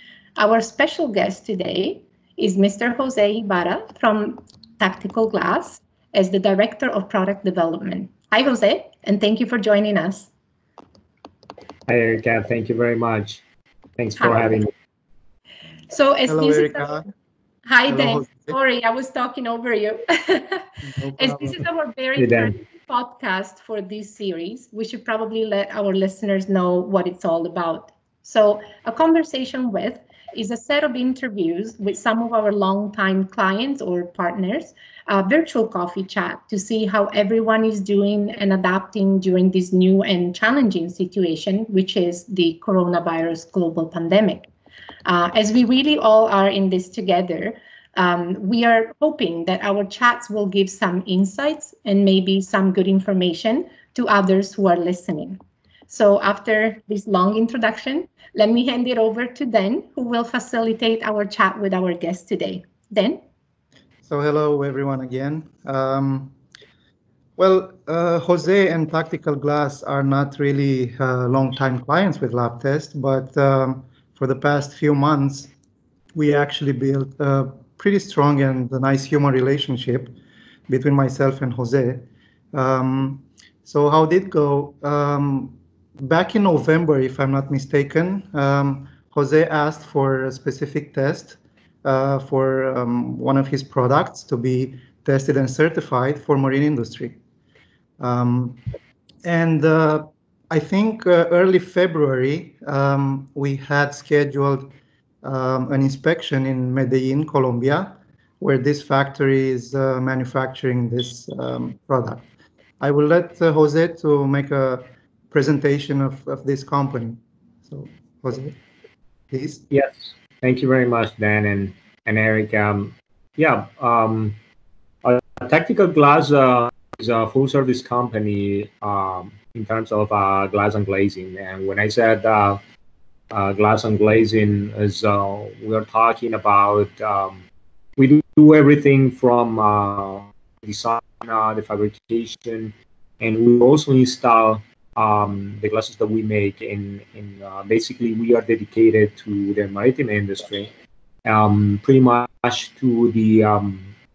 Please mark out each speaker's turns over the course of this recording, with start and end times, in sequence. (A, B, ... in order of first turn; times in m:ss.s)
0:00.4-0:10.3 A
0:11.9-0:13.4 B
0:14.0-0:14.7 B
0:14.2-0:14.6 A
0:15.9-0:17.0 A
0:16.2-0:17.0 C
0:17.6-0:20.7 A
0:17.9-0:18.6 C
0:20.8-0:21.6 C
0:21.2-0:44.5 A
0:22.2-0:22.5 B
0:45.0-1:03.2 A
1:04.0-1:06.3 C
1:07.4-1:15.5 C
1:16.1-1:20.1 C
1:20.7-1:37.2 C
1:38.0-1:38.6 C
1:39.2-1:44.7 C
1:45.2-1:52.3 C
1:52.8-1:58.6 C
1:59.3-1:59.6 C
1:59.7-2:04.4 B
2:05.0-2:12.6 B
2:13.3-2:17.4 B
2:18.0-2:30.7 B
2:31.2-2:33.9 B